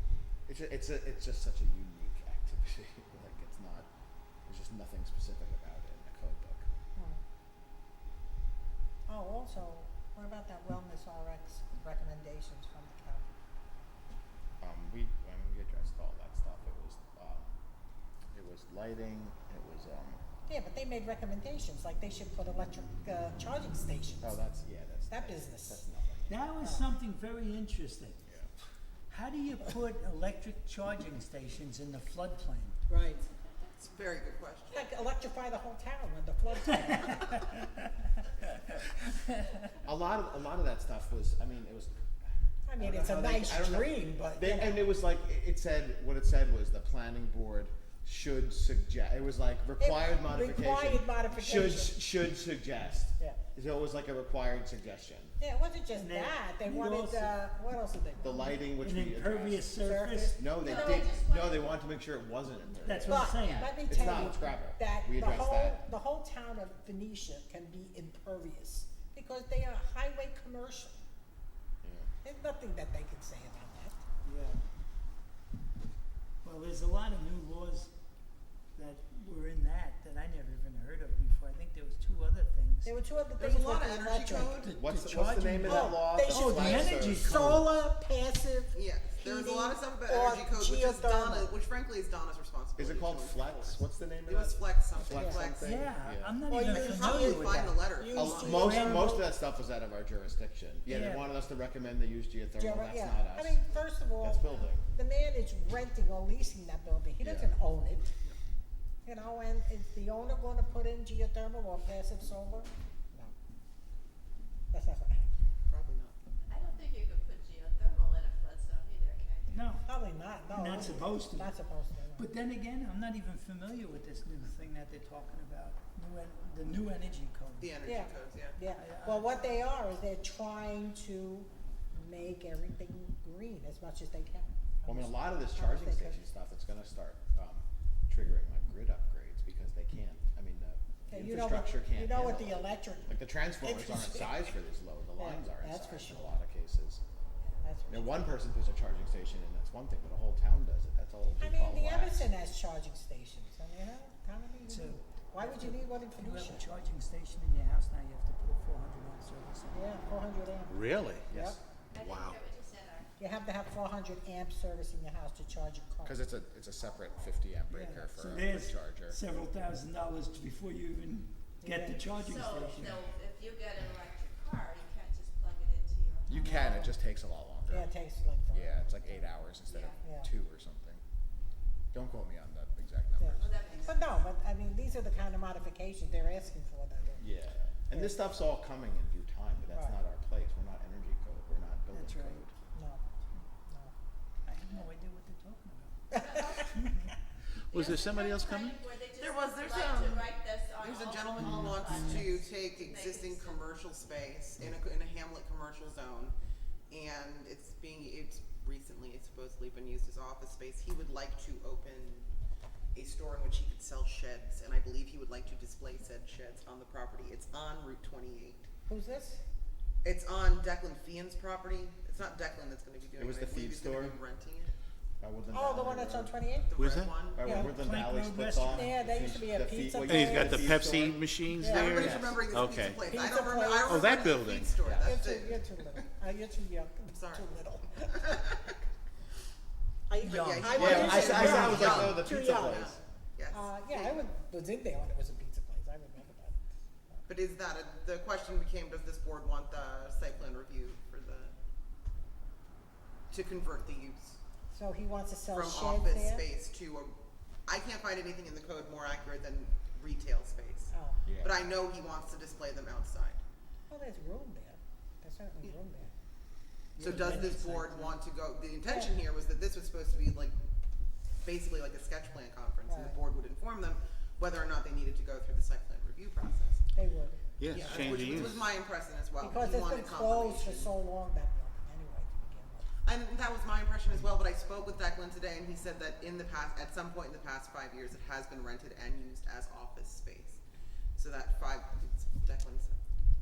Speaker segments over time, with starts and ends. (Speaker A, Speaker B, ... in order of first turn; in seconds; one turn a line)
Speaker A: 0.5-3.9
Speaker A: 4.5-6.7
Speaker B: 9.1-13.3
Speaker A: 14.6-17.5
Speaker A: 18.3-20.2
Speaker B: 20.5-24.4
Speaker A: 24.2-26.4
Speaker B: 25.1-25.8
Speaker C: 26.3-28.2
Speaker B: 26.6-26.9
Speaker C: 29.1-32.8
Speaker B: 32.9-33.2
Speaker D: 33.8-34.9
Speaker B: 34.7-37.5
Speaker A: 39.9-41.9
Speaker B: 42.7-44.9
Speaker A: 42.8-55.4
Speaker B: 49.8-52.0
Speaker B: 55.4-58.6
Speaker C: 56.0-57.4
Speaker A: 58.2-59.7
Speaker C: 58.8-60.4
Speaker B: 59.8-61.0
Speaker A: 60.4-65.8
Speaker E: 60.6-61.8
Speaker C: 62.9-63.9
Speaker B: 63.1-71.0
Speaker A: 71.8-72.1
Speaker B: 72.2-74.0
Speaker C: 74.2-74.6
Speaker C: 76.4-77.9
Speaker C: 78.8-83.0
Speaker B: 82.8-84.6
Speaker D: 83.4-84.8
Speaker C: 84.5-87.7
Speaker A: 84.8-87.4
Speaker B: 85.7-91.5
Speaker D: 88.7-95.8
Speaker A: 92.8-96.4
Speaker B: 95.1-95.4
Speaker C: 95.6-99.2
Speaker B: 96.5-99.2
Speaker D: 96.7-98.7
Speaker A: 98.1-103.6
Speaker C: 100.9-101.3
Speaker B: 102.6-108.1
Speaker A: 104.2-104.9
Speaker A: 107.2-107.6
Speaker B: 109.1-113.3
Speaker B: 114.7-115.3
Speaker D: 115.7-116.2
Speaker E: 116.5-119.5
Speaker C: 119.5-119.9
Speaker B: 119.8-122.3
Speaker C: 120.5-121.6
Speaker C: 122.1-127.7
Speaker D: 127.6-128.6
Speaker B: 127.8-134.6
Speaker C: 128.8-129.7
Speaker A: 134.9-147.0
Speaker B: 135.6-136.2
Speaker B: 141.1-144.3
Speaker B: 145.2-146.4
Speaker B: 147.6-148.3
Speaker A: 147.9-152.3
Speaker B: 151.4-156.7
Speaker C: 154.7-159.9
Speaker B: 159.7-161.6
Speaker F: 160.7-161.3
Speaker A: 161.1-161.6
Speaker E: 161.9-163.1
Speaker F: 162.0-162.4
Speaker B: 163.2-166.3
Speaker A: 166.0-169.2
Speaker E: 166.8-167.4
Speaker C: 167.7-173.0
Speaker B: 171.6-172.8
Speaker E: 172.2-176.8
Speaker A: 176.3-177.9
Speaker B: 177.7-179.3
Speaker A: 178.5-181.0
Speaker E: 179.7-180.0
Speaker B: 180.0-180.3
Speaker A: 181.9-183.6
Speaker B: 183.2-187.3
Speaker E: 183.4-184.1
Speaker A: 187.2-192.5
Speaker B: 189.7-190.0
Speaker C: 191.9-192.4
Speaker B: 192.7-193.1
Speaker C: 194.4-197.1
Speaker E: 196.1-196.7
Speaker B: 196.2-196.4
Speaker F: 197.7-198.8
Speaker E: 197.7-203.6
Speaker D: 199.2-206.3
Speaker C: 201.4-202.3
Speaker D: 206.9-212.3
Speaker D: 212.9-218.7
Speaker B: 218.9-219.4
Speaker D: 220.0-224.7
Speaker A: 223.2-224.2
Speaker A: 225.2-226.3
Speaker B: 225.5-226.7
Speaker D: 226.7-227.7
Speaker F: 226.8-227.2
Speaker A: 227.3-231.2
Speaker B: 227.4-227.8
Speaker C: 227.4-229.0
Speaker B: 228.7-230.6
Speaker F: 230.0-233.0
Speaker B: 231.6-232.1
Speaker D: 231.7-235.6
Speaker A: 231.9-232.3
Speaker B: 233.0-234.1
Speaker F: 233.9-234.9
Speaker A: 234.8-235.2
Speaker B: 235.0-238.5
Speaker D: 237.1-237.5
Speaker D: 238.1-238.6
Speaker B: 240.1-242.9
Speaker C: 240.2-242.2
Speaker D: 240.3-244.2
Speaker A: 240.7-243.0
Speaker B: 243.5-246.6
Speaker D: 247.3-251.5
Speaker D: 253.3-254.4
Speaker B: 254.7-256.4
Speaker D: 255.5-257.1
Speaker D: 257.7-263.4
Speaker B: 260.9-261.2
Speaker A: 261.3-261.6
Speaker B: 263.9-266.1
Speaker C: 267.0-268.2
Speaker D: 267.0-270.6
Speaker B: 268.9-269.1
Speaker D: 271.4-276.8
Speaker B: 272.9-273.2
Speaker B: 276.9-278.5
Speaker F: 277.6-278.6
Speaker D: 277.7-280.9
Speaker B: 279.4-282.9
Speaker D: 283.1-290.6
Speaker D: 291.2-293.0